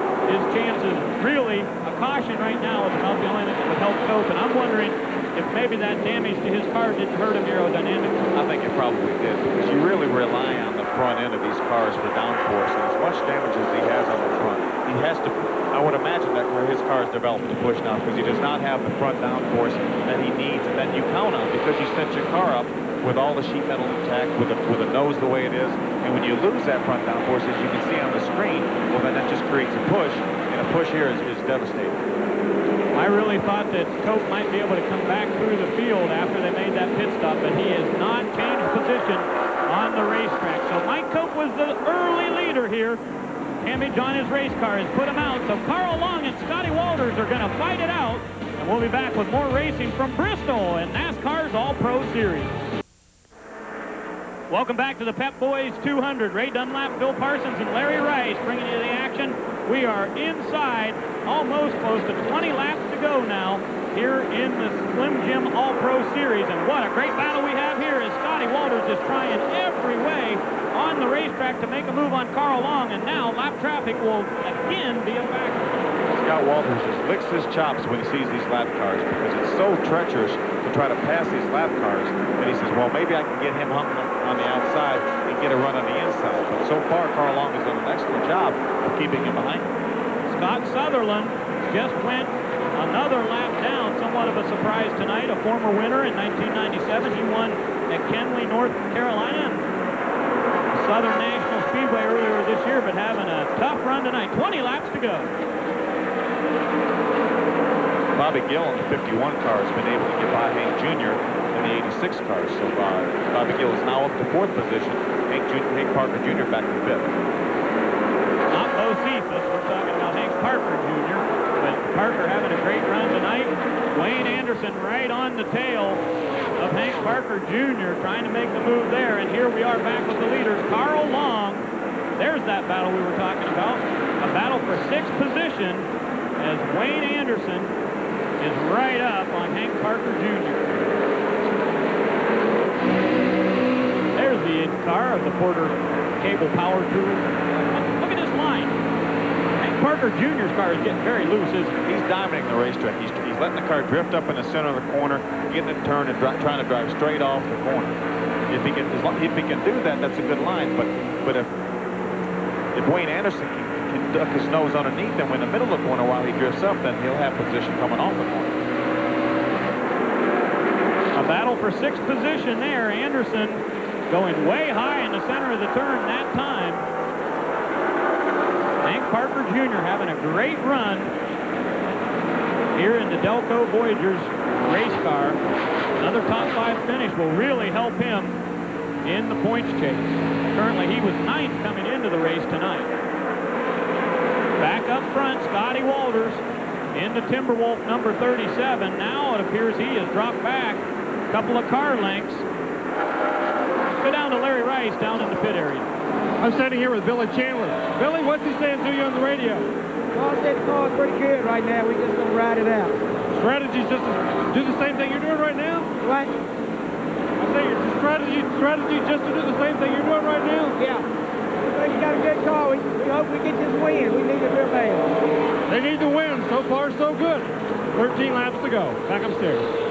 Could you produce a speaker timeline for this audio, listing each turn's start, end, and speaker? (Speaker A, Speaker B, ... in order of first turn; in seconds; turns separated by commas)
Speaker A: 0.3-8.3, Speaker B: 8.3-32.0, Speaker A: 32.9-43.0, Speaker A: 43.6-52.7, Speaker A: 54.5-75.6, Speaker B: 76.1-89.8, Speaker A: 90.2-99.7, Speaker A: 100.7-105.3, Speaker B: 108.2-117.2, Speaker A: 118.5-126.0, Speaker A: 126.6-131.7, Speaker A: 132.2-137.7, Speaker A: 138.4-140.7, Speaker A: 144.2-148.8, Speaker A: 149.6-151.8, Speaker B: 151.8-161.5, Speaker B: 162.7-168.5, Speaker A: 171.1-176.8, Speaker A: 178.8-181.1, Speaker A: 182.7-185.4, Speaker A: 186.0-188.4, Speaker A: 189.1-192.9, Speaker A: 194.6-196.4, Speaker A: 196.9-202.4, Speaker A: 204.0-205.9, Speaker C: 206.4-209.7, Speaker D: 210.1-213.0, Speaker C: 213.3-215.9, Speaker D: 216.0-216.3, Speaker C: 217.4-220.8, Speaker D: 220.8-221.0, Speaker D: 221.6-225.2, Speaker C: 225.7-229.7